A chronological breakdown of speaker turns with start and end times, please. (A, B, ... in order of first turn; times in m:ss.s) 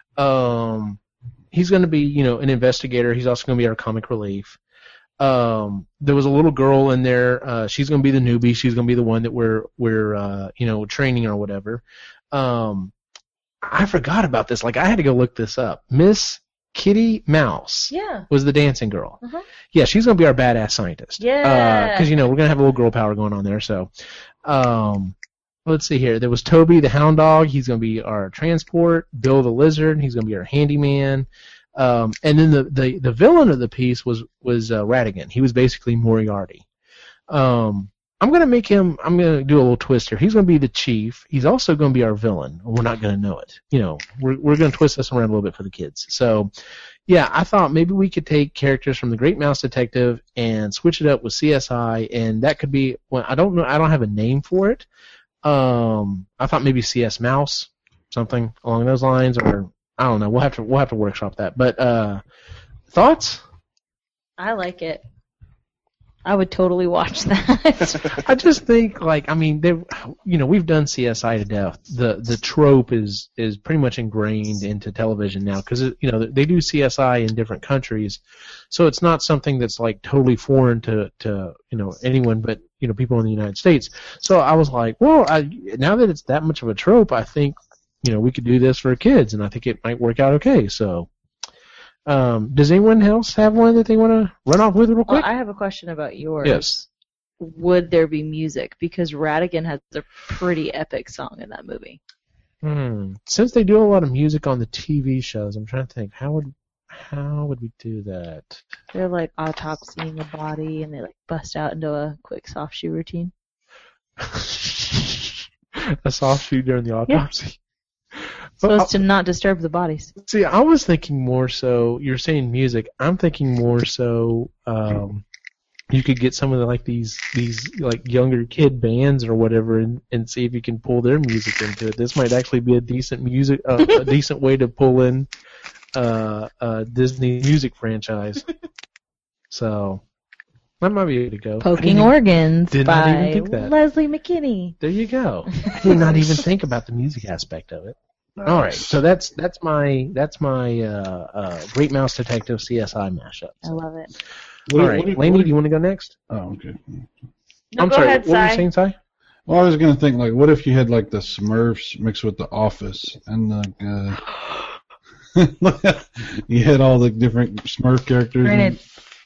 0:00.2-0:01.0 A
0:01.5-0:04.6 A
0:05.2-0:12.9 A
0:13.6-0:19.2 A
0:17.9-0:18.2 B
0:19.7-0:23.9 A
0:21.2-0:22.1 B
0:24.4-0:25.1 A
0:25.6-0:36.6 A
0:37.3-0:46.5 A
0:47.1-0:54.9 A
0:55.4-1:02.2 A
1:02.9-1:03.4 A
1:04.4-1:05.0 B
1:06.2-1:08.2 B
1:08.1-1:31.1 A
1:32.1-1:35.3 A
1:35.1-1:36.8 B
1:36.4-1:36.8 A
1:37.4-1:42.0 B
1:42.6-1:48.6 A
1:48.9-1:53.3 B
1:54.2-1:57.6 A
1:58.1-1:59.0 A
1:58.6-2:00.1 B
2:00.2-2:05.2 A
2:05.9-2:15.3 A
2:15.9-2:18.4 A
2:19.5-2:20.0 A
2:20.8-2:22.1 A
2:21.6-2:24.8 B
2:22.7-2:23.7 A
2:24.8-2:33.8 A
2:25.5-2:26.2 B
2:28.4-2:29.0 C
2:33.6-2:34.1 B
2:34.7-2:35.5 C
2:34.8-2:36.1 A
2:36.3-2:37.1 C
2:37.7-2:38.6 B
2:37.8-2:39.0 A
2:39.5-2:44.2 C
2:45.3-2:48.8 C
2:48.4-2:48.8 B